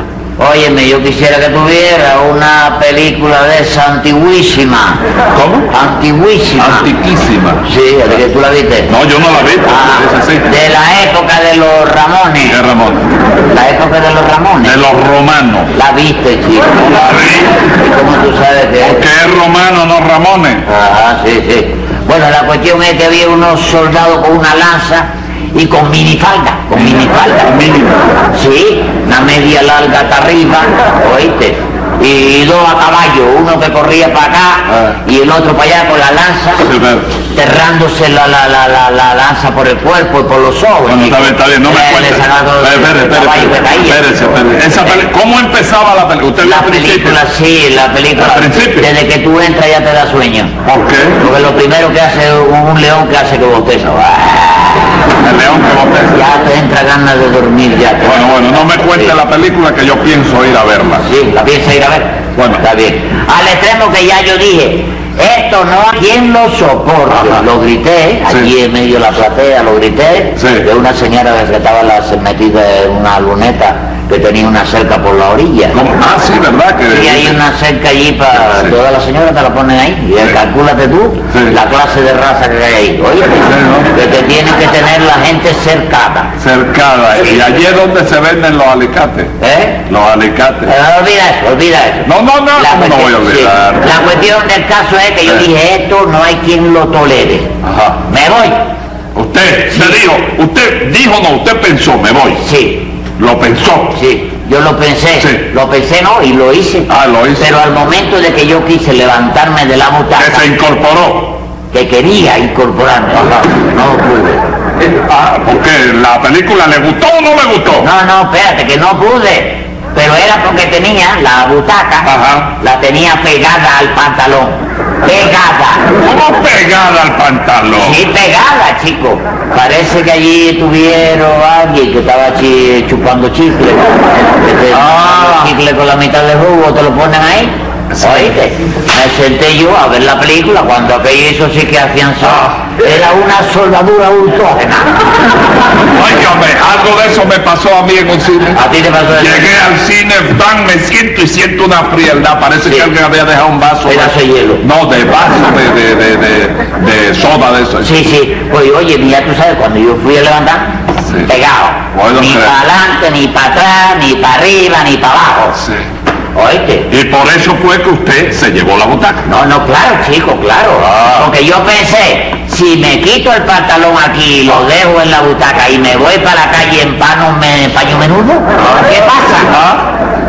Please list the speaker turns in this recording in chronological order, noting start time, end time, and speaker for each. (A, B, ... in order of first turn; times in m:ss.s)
0:00.4-0:05.0 A
0:05.3-0:05.7 B
0:05.7-0:06.9 A
0:06.6-0:07.6 B
0:07.6-0:08.9 A
0:08.9-0:10.5 B
0:09.6-0:12.6 A
0:12.4-0:13.1 B
0:13.5-0:14.9 A
0:14.6-0:15.7 B
0:15.7-0:16.9 A
0:16.7-0:17.6 B
0:17.6-0:19.0 A
0:18.8-0:20.6 B
0:20.6-0:27.6 A
0:26.8-0:28.0 B
0:28.3-0:36.7 A
0:36.6-0:37.1 B
0:37.3-0:44.9 A
0:40.8-0:47.2 B
0:46.4-0:50.6 A
0:48.2-0:48.9 B
0:50.6-0:51.2 B
0:51.2-0:54.9 A
0:55.2-0:56.2 B
0:56.1-0:59.1 A
0:58.0-1:01.0 B
1:01.0-1:15.8 A
1:02.4-1:02.6 B
1:07.1-1:07.4 B
1:10.4-1:10.7 B
1:15.7-1:17.4 B
1:16.9-1:26.3 A
1:21.3-1:21.6 B
1:23.4-1:23.9 B
1:26.4-1:29.3 B
1:29.4-1:29.8 A
1:29.8-1:30.7 B
1:30.6-1:37.5 A
1:32.0-1:34.0 B
1:37.6-1:38.0 B
1:38.1-1:38.6 A
1:39.1-1:42.4 B
1:39.7-1:40.0 A
1:42.4-1:42.9 A
1:43.2-1:44.0 B
1:43.9-1:50.5 A
1:45.2-1:45.4 B
1:46.9-1:47.5 B
1:50.2-1:51.4 B
1:51.7-1:54.4 A
1:53.2-1:53.4 B
1:55.0-1:57.9 B
1:57.8-2:05.9 A
2:02.0-2:02.5 B
2:06.0-2:08.0 B
2:07.8-2:24.9 A
2:14.7-2:15.5 B
2:18.0-2:18.3 B
2:22.2-2:22.7 B
2:25.9-2:28.6 B
2:28.5-2:29.5 A
2:29.1-2:37.9 B
2:33.8-2:34.6 A
2:37.8-2:45.6 A
2:41.0-2:41.3 B
2:41.9-2:42.6 B
2:45.6-2:45.8 B
2:46.3-2:46.9 A
2:46.9-2:49.3 B
2:49.2-2:59.5 A
2:50.8-2:51.3 B
2:59.5-2:59.9 B